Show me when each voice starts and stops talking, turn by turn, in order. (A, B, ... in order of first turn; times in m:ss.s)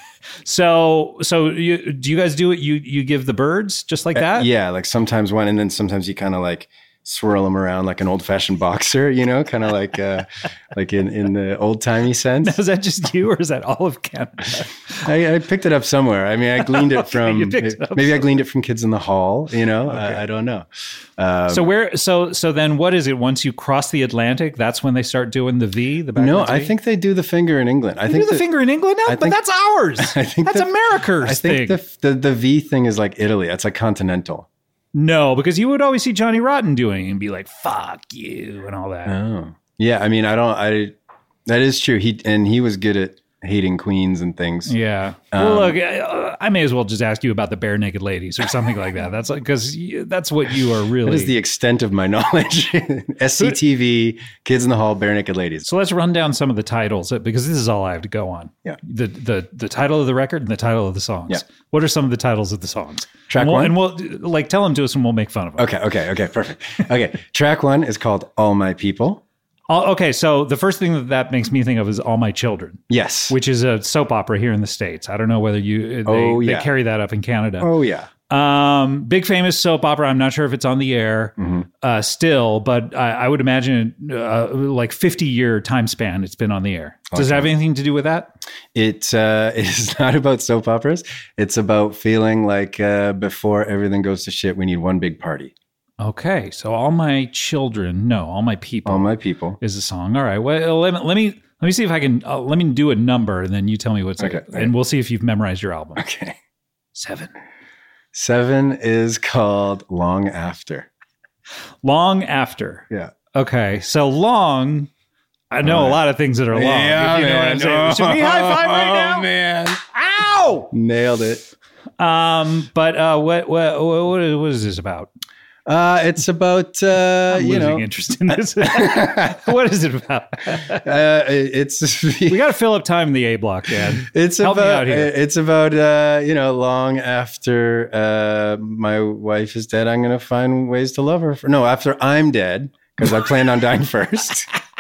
0:00.4-0:04.5 A
0:04.2-0:12.6 B
0:12.4-0:15.0 A
0:15.0-0:21.7 B
0:16.7-0:18.3 A
0:19.9-0:20.2 A
0:21.5-0:26.7 A
0:26.2-0:28.4 B
0:28.1-0:31.8 A
0:29.0-0:29.4 B
0:30.0-0:34.5 B
0:34.9-0:39.2 A
0:39.1-0:40.9 B
0:41.5-0:44.8 B
0:44.7-0:51.3 A
0:45.3-0:45.8 B
0:51.0-0:55.7 B
0:55.6-1:05.7 A
1:03.3-1:03.8 B
1:05.6-1:09.2 B
1:09.7-1:17.7 A
1:12.9-1:13.4 B
1:16.0-1:16.7 B
1:17.6-1:18.1 B
1:18.3-1:28.3 A
1:21.4-1:21.7 B
1:27.1-1:27.5 B
1:28.8-1:35.5 B
1:36.0-1:39.1 A
1:38.9-1:39.6 B
1:39.6-1:46.0 A
1:44.2-1:44.7 B
1:46.0-1:46.4 B
1:47.0-1:47.3 A
1:48.1-1:50.9 B
1:51.8-1:54.9 A
1:55.5-1:59.3 A
1:55.6-1:59.8 B
1:59.9-2:00.7 A
2:00.7-2:01.5 B
2:02.0-2:05.1 A
2:05.7-2:07.9 B
2:07.3-2:10.8 A
2:08.7-2:09.4 B
2:10.8-2:12.4 B
2:12.3-2:15.1 A
2:14.0-2:24.5 B